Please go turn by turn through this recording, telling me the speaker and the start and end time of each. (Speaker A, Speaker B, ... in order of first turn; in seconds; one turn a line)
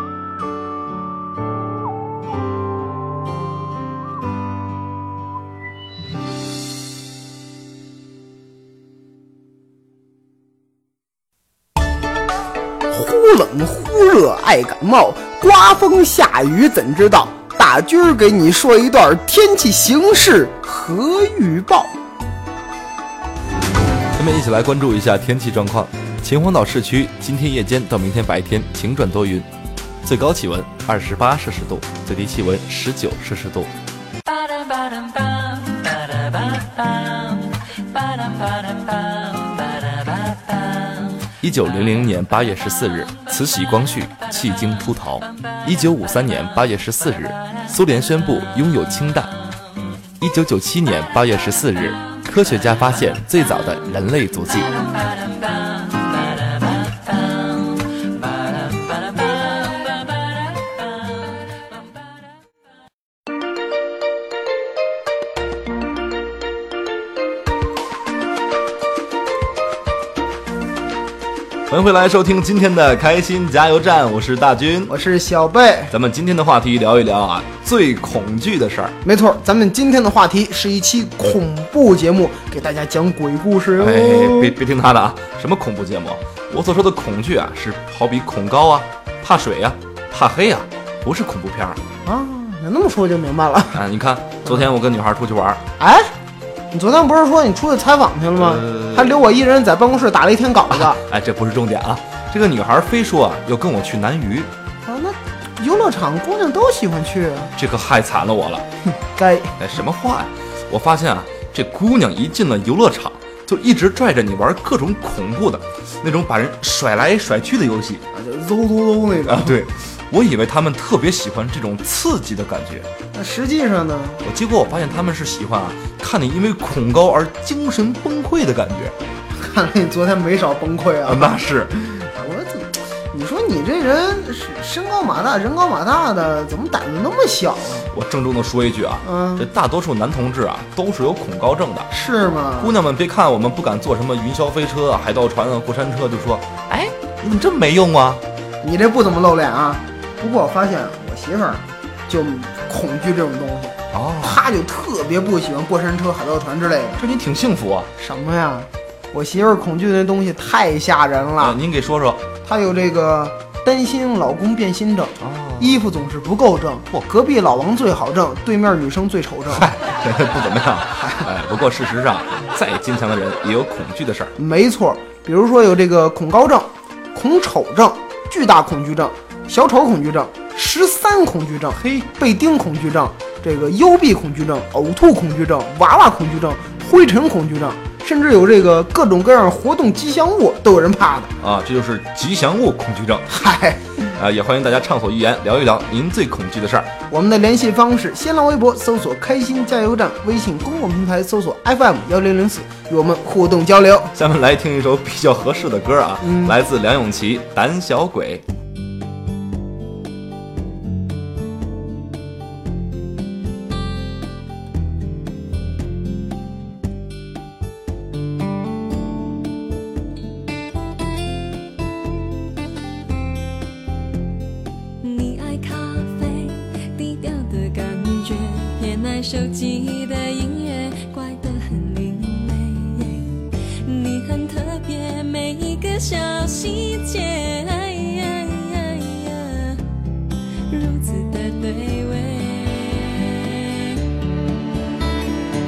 Speaker A: 12.9-21.9
Speaker B: 24.1-29.5
Speaker B: 30.0-33.7
Speaker B: 41.4-49.3
Speaker B: 50.2-54.7
Speaker B: 71.7-74.9
Speaker A: 74.9-75.9
Speaker B: 75.9-79.0
Speaker A: 79.0-84.5
Speaker B: 83.8-91.8
Speaker A: 92.0-93.8
Speaker B: 93.7-95.6
Speaker A: 95.8-96.1
Speaker A: 96.7-101.0
Speaker B: 98.3-99.2
Speaker B: 100.7-104.5
Speaker A: 104.8-107.5
Speaker B: 107.5-108.7
Speaker A: 109.1-109.5
Speaker B: 109.6-118.0
Speaker A: 118.1-119.6
Speaker B: 119.3-122.9
Speaker A: 123.1-124.2
Speaker B: 124.2-128.9
Speaker A: 129.3-131.4
Speaker B: 131.0-132.0
Speaker A: 132.0-137.9
Speaker B: 137.9-141.9
Speaker A: 139.0-139.5
Speaker A: 141.9-142.8
Speaker B: 142.6-148.2
Speaker A: 148.6-157.0
Speaker B: 153.9-154.4
Speaker B: 157.0-157.9
Speaker A: 158.0-161.6
Speaker B: 161.4-162.2
Speaker A: 162.4-169.7
Speaker B: 165.2-165.8
Speaker B: 169.5-174.3
Speaker A: 174.4-191.3
Speaker B: 181.8-182.1
Speaker B: 191.4-193.3
Speaker A: 193.3-193.8
Speaker B: 194.1-196.9
Speaker A: 197.1-204.1
Speaker B: 204.1-208.4
Speaker A: 206.2-206.6
Speaker C: 225.0-239.8
Speaker C: 240.7-244.0